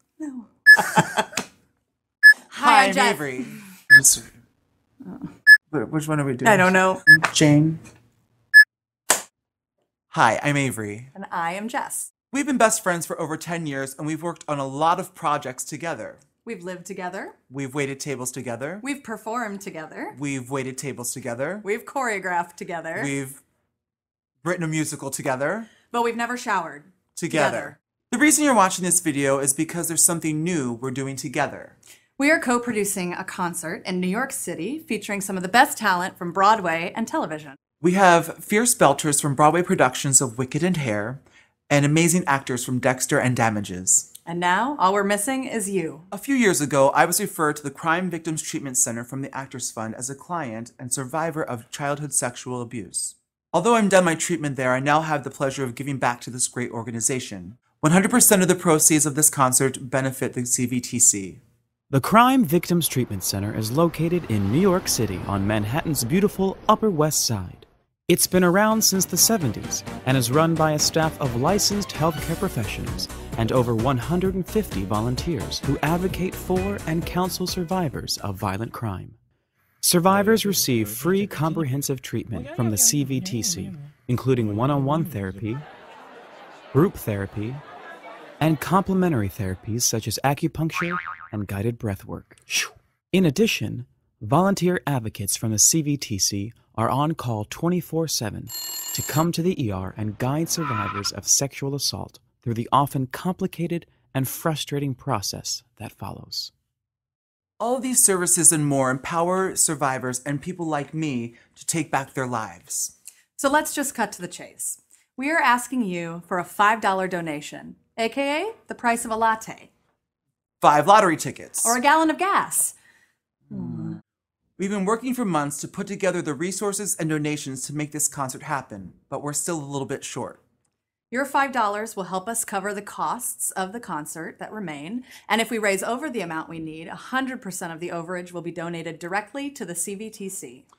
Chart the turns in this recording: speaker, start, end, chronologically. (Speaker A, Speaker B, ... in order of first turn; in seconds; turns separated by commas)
Speaker A: 0.2-1.3, Speaker A: 2.5-3.6, Speaker B: 2.6-4.3, Speaker B: 5.7-7.8, Speaker A: 6.4-7.0, Speaker B: 10.1-11.1, Speaker A: 11.1-12.1, Speaker B: 12.3-16.2, Speaker A: 16.4-17.4, Speaker B: 17.5-18.8, Speaker A: 18.8-20.2, Speaker B: 20.1-21.6, Speaker A: 21.6-23.1, Speaker B: 23.0-23.4, Speaker B: 24.4-25.7, Speaker A: 25.9-27.8, Speaker B: 27.2-31.8, Speaker A: 32.2-37.6, Speaker B: 37.8-44.1, Speaker A: 44.3-46.1, Speaker B: 46.1-61.4, Speaker C: 61.9-79.2, Speaker C: 79.8-85.7, Speaker C: 86.7-87.6, Speaker C: 88.4-106.5, Speaker B: 107.6-112.9, Speaker A: 113.4-119.7, Speaker B: 120.6-121.8, Speaker A: 121.6-122.8, Speaker A: 123.5-124.0, Speaker B: 123.7-123.9, Speaker B: 124.6-130.4, Speaker A: 131.1-140.7